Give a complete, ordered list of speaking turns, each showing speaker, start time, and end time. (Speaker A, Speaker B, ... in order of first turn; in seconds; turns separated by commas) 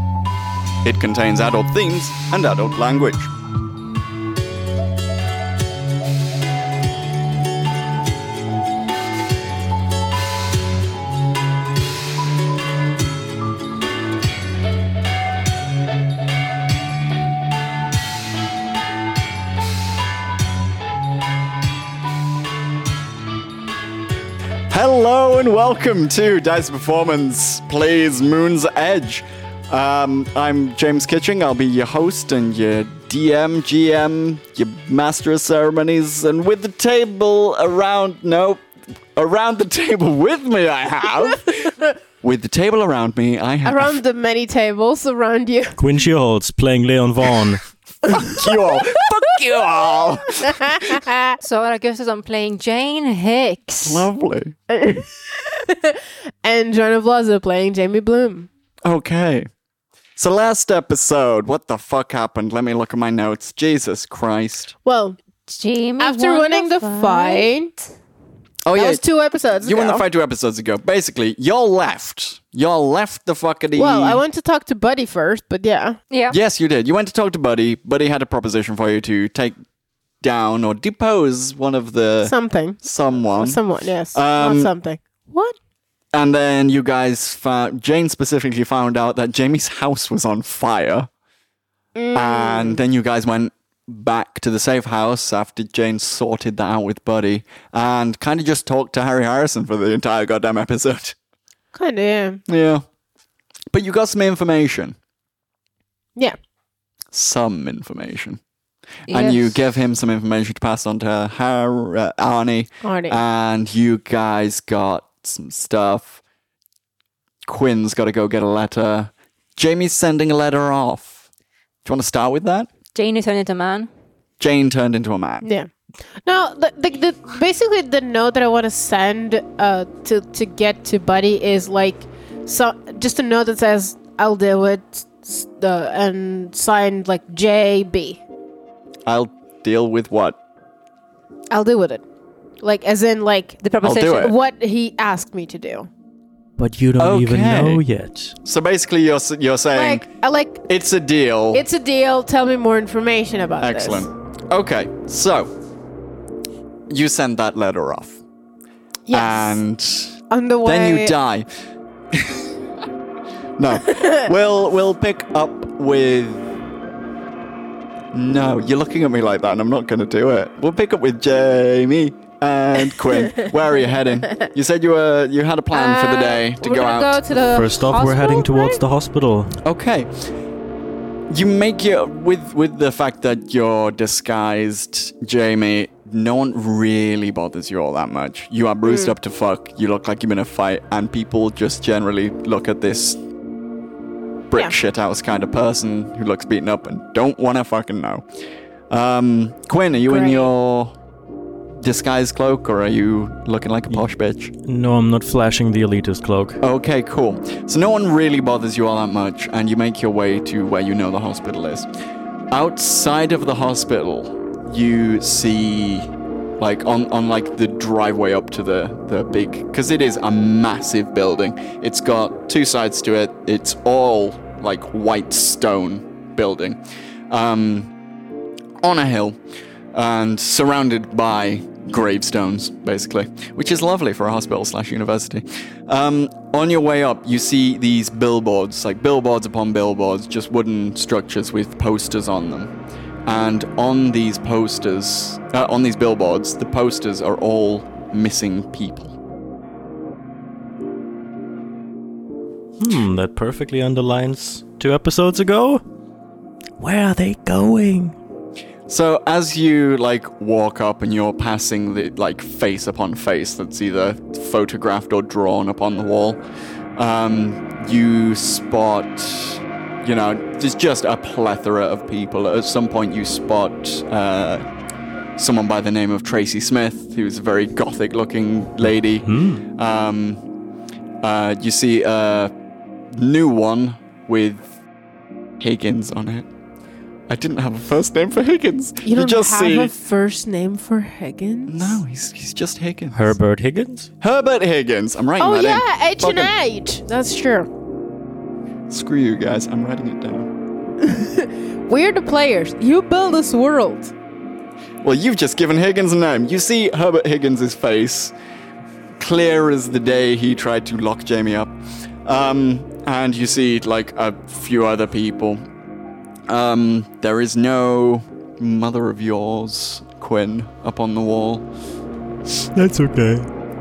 Speaker A: 0.8-3.3, Speaker A: 24.7-38.6, Speaker A: 39.1-44.0, Speaker B: 43.6-45.9, Speaker C: 45.8-47.6, Speaker A: 48.0-50.9, Speaker B: 48.2-48.8, Speaker B: 50.5-51.4, Speaker D: 51.4-54.1, Speaker A: 53.8-54.5, Speaker B: 54.7-58.5, Speaker A: 58.9-59.5, Speaker A: 60.2-64.8, Speaker B: 64.8-65.2, Speaker D: 65.5-67.5, Speaker B: 66.0-67.7, Speaker A: 68.7-69.0, Speaker B: 68.8-70.0, Speaker A: 69.6-74.2, Speaker B: 73.8-76.0, Speaker A: 76.3-79.6, Speaker A: 80.2-84.7, Speaker B: 82.2-82.8, Speaker B: 83.3-85.6, Speaker A: 86.1-91.1, Speaker B: 92.0-92.8, Speaker A: 92.1-101.2, Speaker B: 101.7-102.4, Speaker A: 102.5-102.8, Speaker A: 103.7-105.0, Speaker A: 107.1-108.4, Speaker A: 109.1-116.2, Speaker D: 109.1-109.5, Speaker B: 112.8-113.2, Speaker A: 117.5-121.3, Speaker A: 121.8-122.7, Speaker D: 122.9-123.9, Speaker A: 124.4-125.5, Speaker B: 125.4-125.7, Speaker B: 126.2-138.2, Speaker A: 139.1-140.4, Speaker B: 141.5-142.0, Speaker B: 142.6-145.9, Speaker D: 143.6-144.3, Speaker A: 143.8-144.3, Speaker C: 146.6-148.4, Speaker A: 147.0-147.8, Speaker A: 148.4-150.1, Speaker B: 149.8-150.6, Speaker A: 150.7-151.6, Speaker B: 151.5-154.1, Speaker A: 153.6-155.5, Speaker A: 156.9-158.2, Speaker B: 159.1-159.6, Speaker A: 159.1-161.5, Speaker B: 160.3-161.2, Speaker A: 162.1-162.5, Speaker A: 163.6-166.6, Speaker A: 168.1-177.2, Speaker B: 175.7-178.8, Speaker C: 177.4-179.6, Speaker A: 179.6-180.1, Speaker A: 181.3-193.2, Speaker B: 188.8-189.2, Speaker A: 194.5-198.2, Speaker A: 198.9-200.9, Speaker B: 200.1-200.5, Speaker A: 201.8-204.5, Speaker C: 204.6-206.6, Speaker A: 206.6-211.9, Speaker A: 212.5-227.9, Speaker A: 228.8-229.4, Speaker A: 229.9-242.7, Speaker A: 243.3-249.2, Speaker C: 252.8-255.8, Speaker C: 256.8-258.2, Speaker A: 258.9-266.4, Speaker A: 267.0-274.6, Speaker A: 275.4-280.4, Speaker C: 279.2-279.6, Speaker A: 281.2-282.5, Speaker A: 283.1-284.8, Speaker A: 285.6-286.5, Speaker A: 287.3-289.9, Speaker B: 289.0-292.0, Speaker A: 291.7-293.3, Speaker C: 293.1-294.1, Speaker A: 294.2-296.5, Speaker B: 295.4-297.7, Speaker A: 298.9-300.5, Speaker B: 301.0-304.1, Speaker A: 305.0-308.3, Speaker A: 309.2-311.7, Speaker A: 312.2-315.6, Speaker A: 316.5-321.7, Speaker C: 322.7-323.5